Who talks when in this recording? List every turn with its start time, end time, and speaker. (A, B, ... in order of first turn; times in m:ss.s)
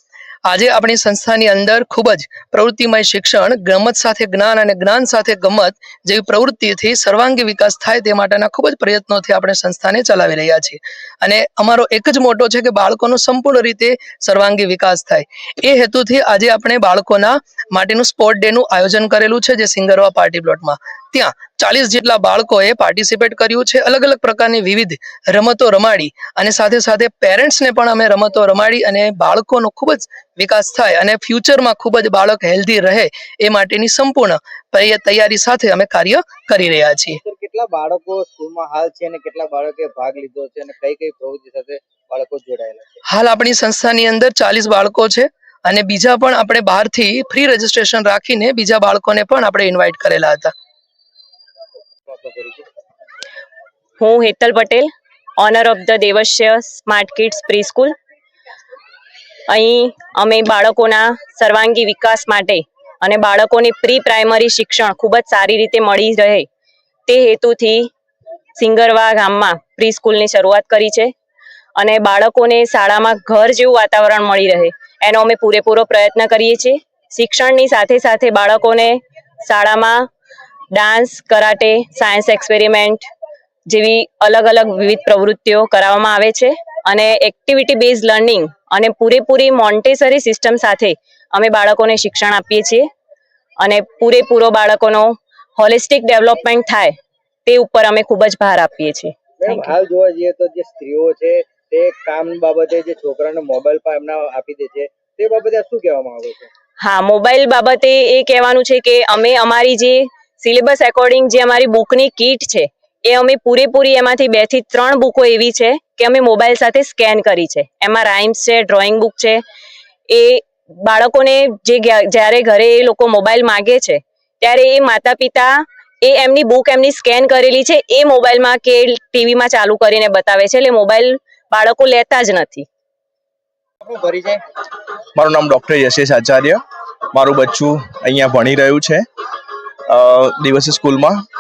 0:00.4-0:37.2 A
0:37.1-0:42.8 B
0:43.1-0:50.5 A
0:52.1-0:52.7 B
0:54.0-0:57.9 C
0:59.5-1:06.4 C
1:07.1-1:07.9 C
1:08.6-1:11.1 C
1:11.8-1:20.1 C
1:20.7-1:23.1 C
1:23.7-1:32.9 C
1:33.6-1:36.9 C
1:37.4-1:39.7 C
1:39.4-1:46.5 B
1:46.8-1:59.4 C
2:00.1-2:12.7 C
2:13.8-2:14.4 B
2:15.1-2:16.6 D
2:17.1-2:19.0 D
2:19.9-2:21.2 D